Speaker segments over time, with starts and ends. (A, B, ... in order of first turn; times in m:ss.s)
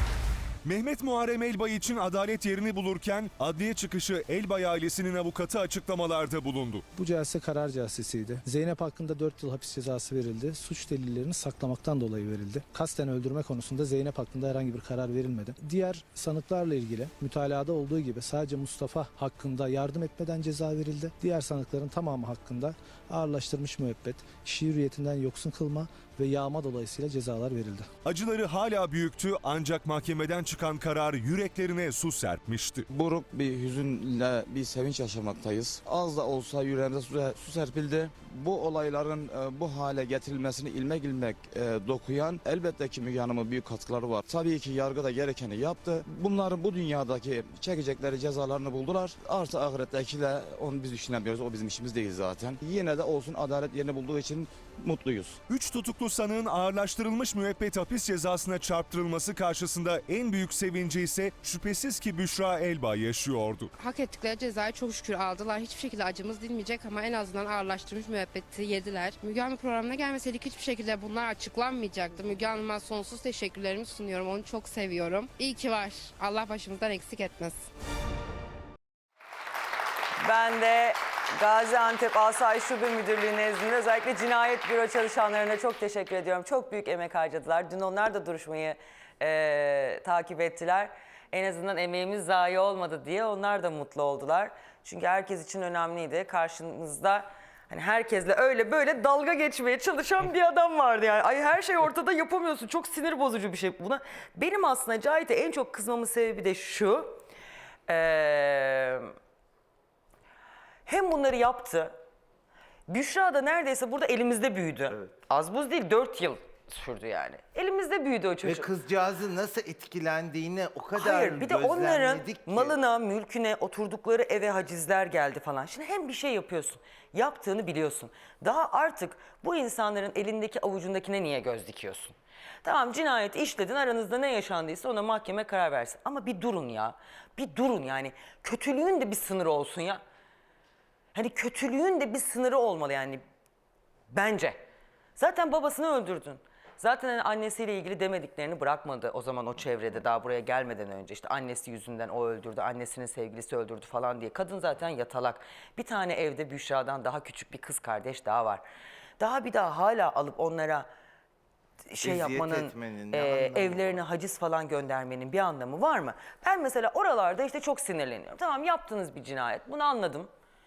0:00.6-0:06.8 A
0:06.9-0:27.9 B
0:28.0-0:32.9 A
0:32.9-0:55.4 C
0:55.5-1:03.7 A
1:03.8-1:17.7 D
1:20.2-1:47.2 E
1:47.9-1:49.1 E
1:50.8-1:51.9 E
1:52.9-1:58.7 E
1:58.4-2:02.8 F
2:01.0-2:12.1 E
2:12.6-2:20.0 E
2:21.1-2:23.2 E
2:24.1-2:24.6 E
2:25.2-2:38.6 E
2:39.2-2:40.9 E
2:41.9-2:50.3 E
2:42.0-2:44.0 F